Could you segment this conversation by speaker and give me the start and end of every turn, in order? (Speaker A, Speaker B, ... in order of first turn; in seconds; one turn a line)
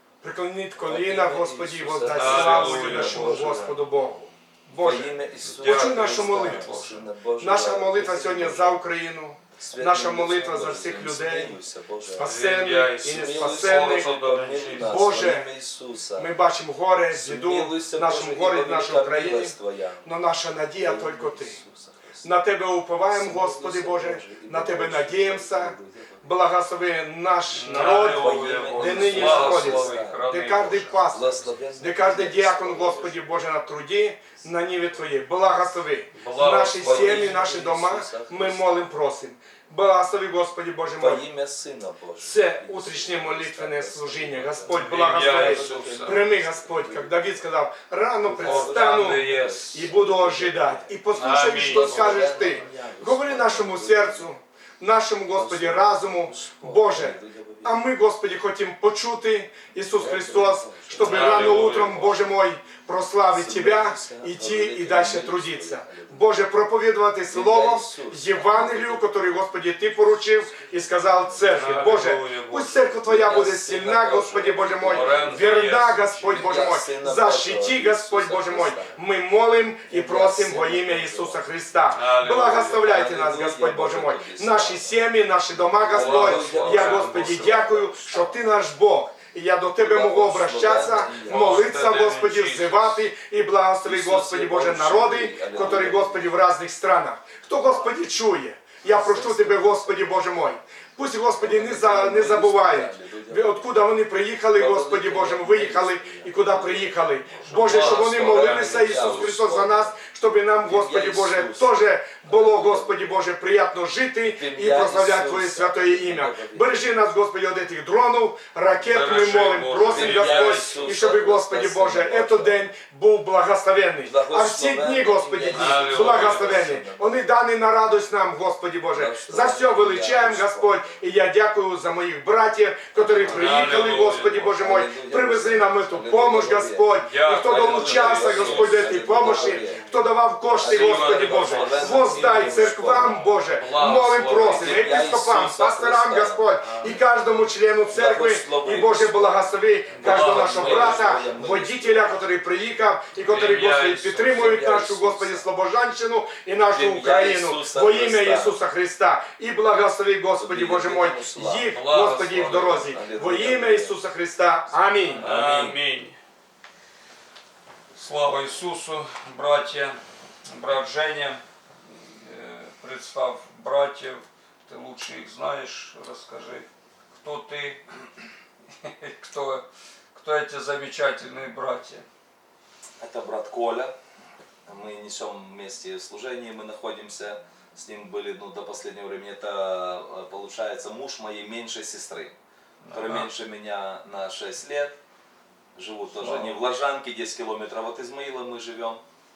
Speaker A: 0.2-6.8
Speaker B: 0.8-3.8
Speaker C: 2.1-3.6
Speaker B: 4.8-8.8
Speaker C: 5.5-7.0
Speaker A: 7.4-14.1
Speaker B: 9.6-12.4
Speaker C: 12.2-15.1
Speaker B: 13.0-16.3
Speaker A: 14.7-15.5
Speaker A: 16.2-21.6
Speaker B: 17.1-20.1
Speaker B: 20.8-22.3
Speaker A: 22.2-41.2
Speaker B: 23.1-26.4
Speaker C: 27.5-31.4
Speaker B: 27.7-30.3
Speaker B: 31.1-33.4
Speaker C: 36.1-37.4
Speaker B: 36.5-38.9
Speaker B: 41.0-47.4
Speaker A: 42.2-165.3
Speaker C: 44.7-46.2
Speaker B: 48.2-51.0
Speaker C: 48.4-49.9
Speaker C: 51.1-52.6
Speaker B: 51.6-54.3
Speaker B: 55.3-57.8
Speaker B: 59.9-62.3
Speaker C: 61.0-62.2
Speaker B: 63.3-66.5
Speaker B: 67.3-69.7
Speaker B: 71.2-71.8
Speaker C: 71.4-73.0
Speaker B: 73.0-75.7
Speaker C: 74.9-76.5
Speaker B: 76.2-79.0
Speaker B: 79.9-81.4
Speaker C: 81.9-82.5
Speaker B: 82.3-85.0
Speaker B: 85.8-88.5
Speaker C: 85.9-87.6
Speaker B: 89.8-91.7
Speaker C: 91.2-93.0
Speaker B: 93.8-96.3
Speaker B: 98.8-99.8
Speaker B: 101.4-103.8
Speaker B: 104.5-110.0
Speaker C: 107.4-109.3
Speaker B: 110.6-113.2
Speaker B: 114.3-116.8
Speaker C: 118.9-120.9
Speaker B: 119.8-122.7
Speaker B: 124.0-127.3
Speaker C: 125.5-126.7
Speaker B: 128.9-131.0
Speaker B: 132.9-139.8
Speaker C: 133.2-134.4
Speaker C: 137.0-139.6
Speaker B: 140.5-143.2
Speaker C: 140.5-145.0
Speaker B: 144.4-146.5
Speaker C: 146.6-147.0
Speaker B: 147.9-149.4
Speaker C: 149.9-151.0
Speaker B: 150.0-152.3
Speaker C: 153.2-154.2
Speaker B: 154.1-155.5
Speaker B: 156.7-158.6
Speaker B: 160.4-161.7
Speaker C: 161.7-163.0
Speaker B: 162.3-163.9
Speaker C: 165.1-166.2
Speaker B: 165.2-165.8
Speaker C: 167.9-177.8
Speaker C: 178.8-182.0
Speaker B: 183.0-183.9
Speaker B: 184.7-192.3
Speaker C: 192.8-193.3
Speaker B: 192.9-195.0
Speaker B: 195.8-199.0
Speaker C: 196.1-196.6